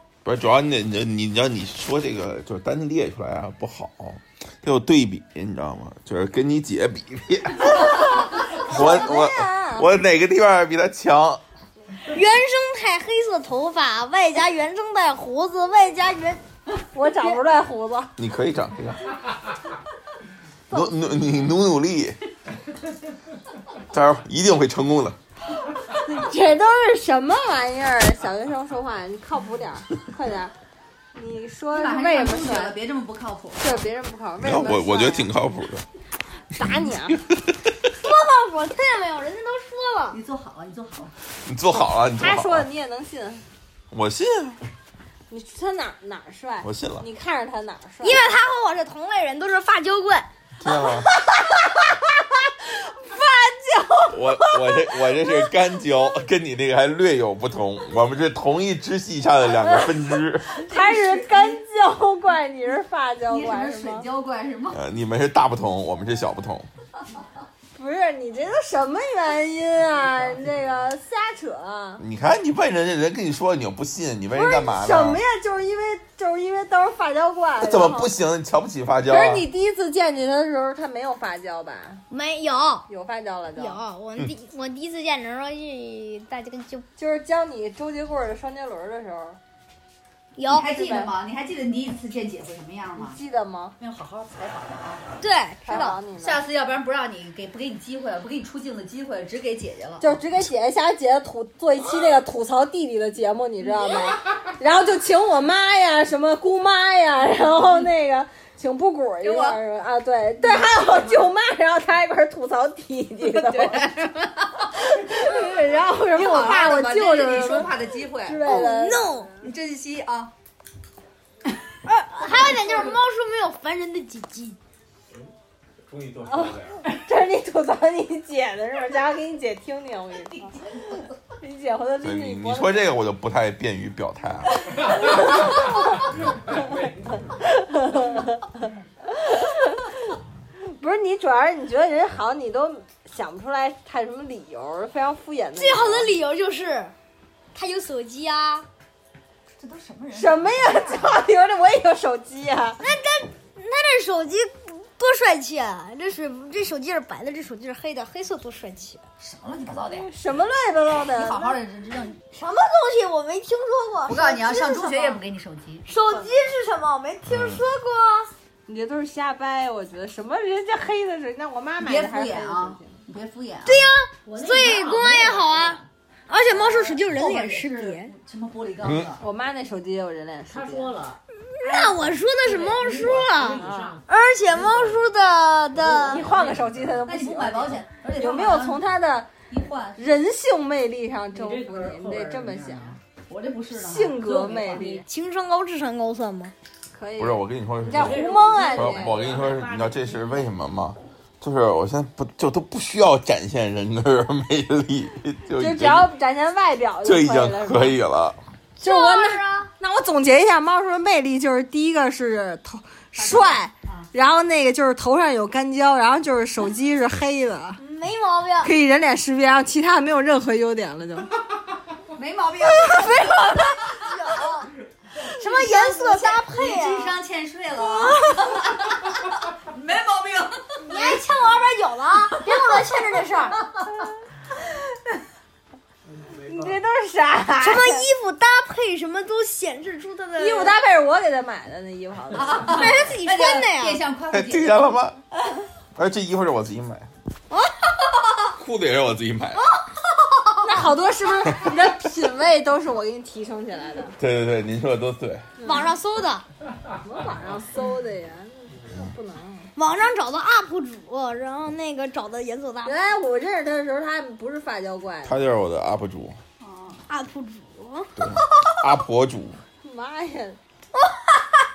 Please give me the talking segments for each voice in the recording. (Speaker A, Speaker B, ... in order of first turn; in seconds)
Speaker A: 0.2-11.4, 18.2-19.1, 20.7-22.2, 23.9-25.2, 34.4-35.9, 36.5-37.7, 41.4-42.7, 43.9-44.6, 46.6-47.0, 50.6-51.1, 54.1-60.5, 64.7-66.7, 72.0-75.2, 77.6-79.5, 132.0-134.8, 167.3-167.6, 178.8-179.1, 197.2-206.1, 207.0-208.4, 244.3-245.2, 246.0-247.1, 248.6-249.6, 254.2-255.5, 265.2-266.4, 268.2-269.6
Speaker B: 7.6-9.9, 16.9-18.1, 26.0-30.5, 31.1-32.8, 33.6-35.3, 36.5-37.2, 42.2-43.4, 45.3-48.2, 53.1-54.7, 59.6-59.9, 60.6-64.1, 67.8-72.0, 74.3-78.1, 79.1-82.0, 82.9-83.8, 87.0-89.4, 90.5-91.1, 93.0-93.8, 95.7-96.4, 100.0-119.2, 122.6-123.0, 126.3-133.0, 134.9-136.6, 137.3-146.1, 150.1-152.8, 159.9-161.6, 168.7-173.0, 176.5-177.0, 179.2-180.9, 183.6-184.0, 185.8-189.3, 190.0-193.0, 193.8-195.0, 196.9-199.2, 205.6-208.0, 208.8-217.8, 218.6-221.3, 222.6-224.1, 225.4-226.4, 227.8-228.6, 233.9-234.2, 236.3-238.0, 240.4-243.1, 250.6-254.2, 255.6-255.9, 257.0-259.7, 262.9-265.5, 269.8-270.6
Speaker C: 12.1-16.4, 37.9-40.2, 48.0-50.3, 82.1-82.9, 83.6-86.9, 90.4-90.7, 95.2-96.0, 118.4-119.3, 121.9-124.6, 145.6-146.9, 147.5-148.7, 152.8-159.0, 162.3-165.2, 165.9-168.3, 173.7-178.1, 181.6-186.3, 195.1-196.5, 208.8-209.7, 217.8-218.7, 223.8-224.7, 225.2-227.1, 230.8-233.6, 237.6-240.8, 242.7-244.0, 247.5-247.8, 255.6-256.4, 259.8-263.0, 267.1-268.9
Speaker D: 31.7-33.8, 40.1-41.1, 60.6-61.6, 63.3-64.8, 90.5-93.2, 93.8-95.0, 96.2-100.2, 109.2-109.6, 110.4-110.7, 113.2-118.6, 119.4-120.3, 149.6-151.2, 159.2-160.1, 161.1-162.2, 164.1-165.8, 171.8-173.9, 177.1-179.2, 187.1-188.8, 189.5-190.0, 193.3-194.5, 213.2-214.1, 222.2-223.4, 226.2-230.9, 242.3-245.0, 250.1-250.9, 266.6-267.0
Speaker E: 125.9-126.8, 135.2-135.6, 136.2-137.3
Speaker F: 174.2-175.9, 180.5-185.1, 185.8-187.0, 191.3-193.0, 194.2-195.0, 197.9-200.5